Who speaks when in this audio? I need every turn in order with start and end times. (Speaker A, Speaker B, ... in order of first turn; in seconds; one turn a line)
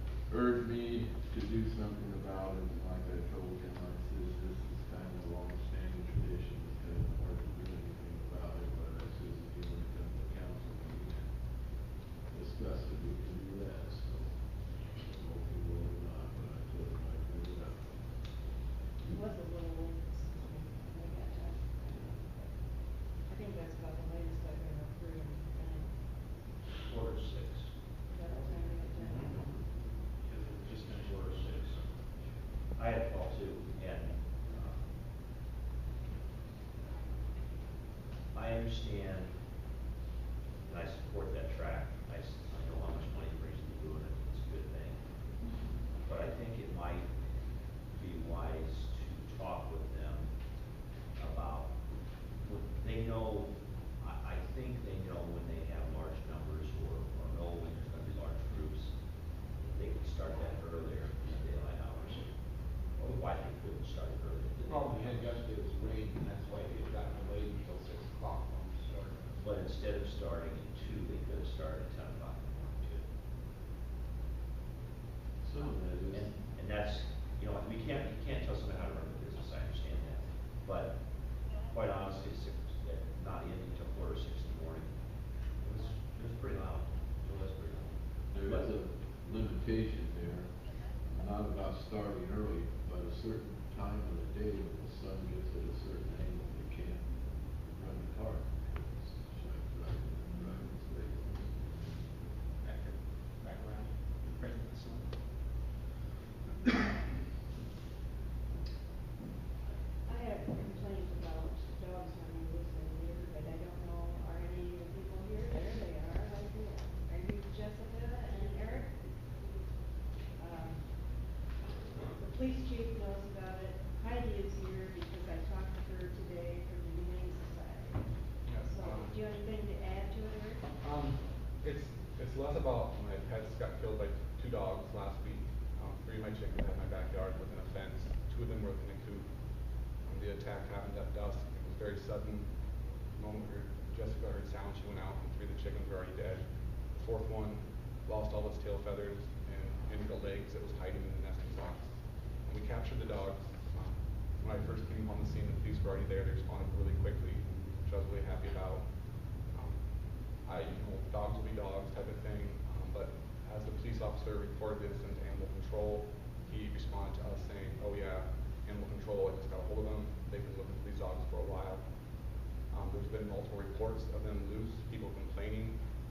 Speaker A: 0.3-11.4
Speaker A: 12.3-17.9
Speaker B: 19.1-22.5
Speaker B: 23.1-26.0
Speaker C: 26.8-27.7
Speaker B: 28.1-29.3
Speaker C: 29.0-29.4
Speaker D: 30.2-31.8
Speaker C: 30.6-31.8
Speaker C: 32.7-34.8
Speaker C: 38.3-39.4
Speaker C: 40.6-45.0
Speaker C: 46.0-47.1
Speaker C: 47.9-50.3
Speaker C: 51.2-51.7
Speaker C: 52.4-62.3
Speaker C: 62.9-65.0
Speaker D: 64.6-69.5
Speaker C: 69.4-73.0
Speaker A: 75.4-76.3
Speaker C: 75.6-81.0
Speaker C: 81.6-84.9
Speaker C: 85.6-88.7
Speaker A: 88.3-102.3
Speaker E: 102.6-105.1
Speaker B: 110.0-119.1
Speaker B: 120.4-121.2
Speaker B: 122.0-128.0
Speaker F: 128.4-129.2
Speaker B: 128.7-130.6
Speaker F: 130.8-139.3
Speaker F: 139.9-142.5
Speaker F: 143.1-159.8
Speaker F: 160.4-171.8
Speaker F: 172.7-175.8